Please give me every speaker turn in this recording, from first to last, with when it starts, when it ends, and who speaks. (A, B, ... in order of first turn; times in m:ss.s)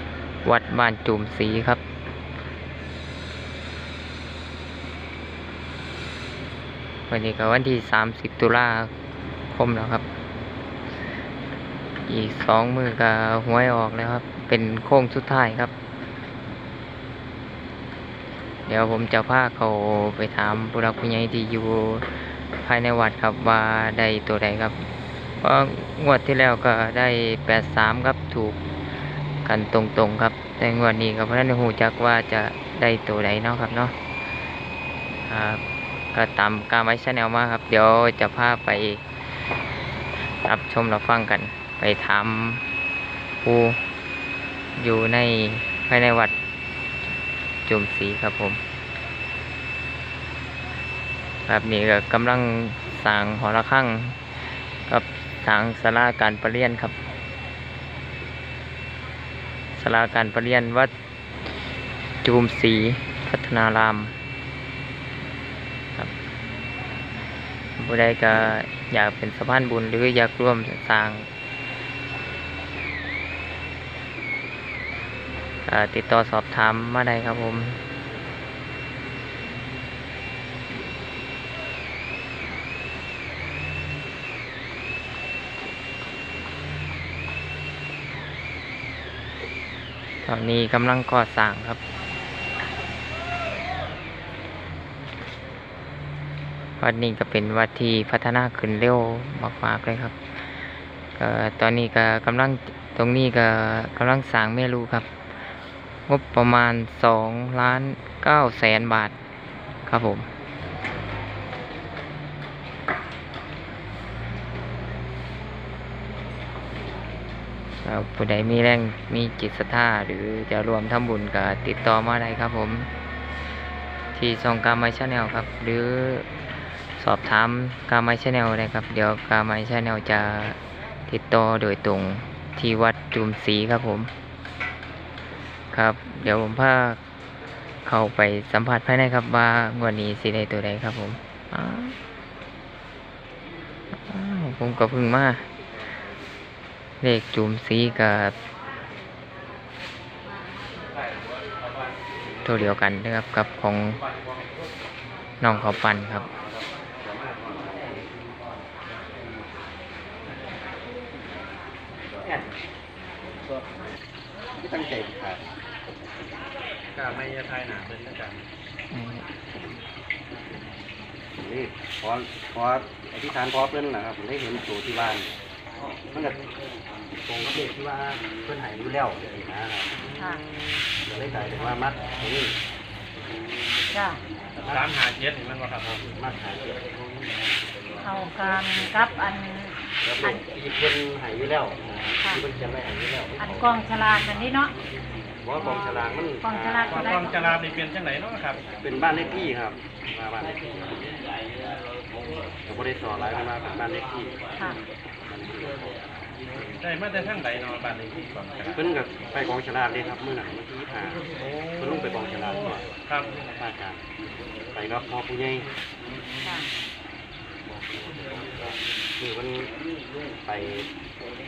0:00.4-0:01.8 A
0:07.1-0:08.9 A
0:09.5-0:10.0 A
0:12.1-0:15.7 A
0:18.7-0:24.8 A
0:25.4-0:28.6 A
0:29.4-0:33.9 A
0:35.3-0:35.6 A
0:36.1-0:39.0 A
0:40.4-0:42.6 A
0:43.4-0:43.8 A
0:44.8-0:46.3 A
0:47.6-0:48.6 A
0:51.5-0:54.2 A
0:54.9-0:56.9 A
0:59.7-1:00.9 A
1:02.2-1:04.1 A
1:07.8-1:11.3 A
1:15.6-1:17.8 A
1:30.2-1:31.8 A
1:36.8-1:40.2 A
1:41.2-1:45.1 A
1:46.1-1:49.1 A
1:49.9-1:50.3 A
1:57.8-2:02.9 A
2:04.1-2:06.3 A
2:07.0-2:14.1 A
2:15.7-2:17.0 A
2:17.8-2:21.9 A
2:24.1-2:25.4 A
2:27.0-2:28.3 A
2:32.4-2:34.0 A
2:35.4-2:36.2 A
2:37.0-2:37.9 B
2:42.2-2:42.5 B
2:44.6-2:45.4 B
2:46.9-2:48.4 C
2:48.9-2:49.2 A
2:51.4-2:55.3 B
2:56.1-2:56.4 B
2:57.2-3:00.1 B
3:01.0-3:02.5 B
3:03.9-3:04.2 D
3:04.6-3:05.0 B
3:04.7-3:06.0 C
3:06.0-3:06.9 B
3:08.0-3:10.4 D
3:10.0-3:13.7 B
3:13.4-3:14.7 D
3:15.4-3:17.2 B
3:15.6-3:15.8 D
3:16.4-3:17.6 D
3:16.9-3:18.6 C
3:18.8-3:21.1 B
3:22.7-3:24.4 B
3:25.3-3:26.1 B
3:26.8-3:28.8 C
3:28.7-3:32.8 B
3:31.4-3:32.0 C
3:33.6-3:34.0 B
3:34.7-3:35.7 B
3:36.4-3:36.7 D
3:37.9-3:38.6 B
3:39.2-3:39.7 B
3:40.4-3:40.9 B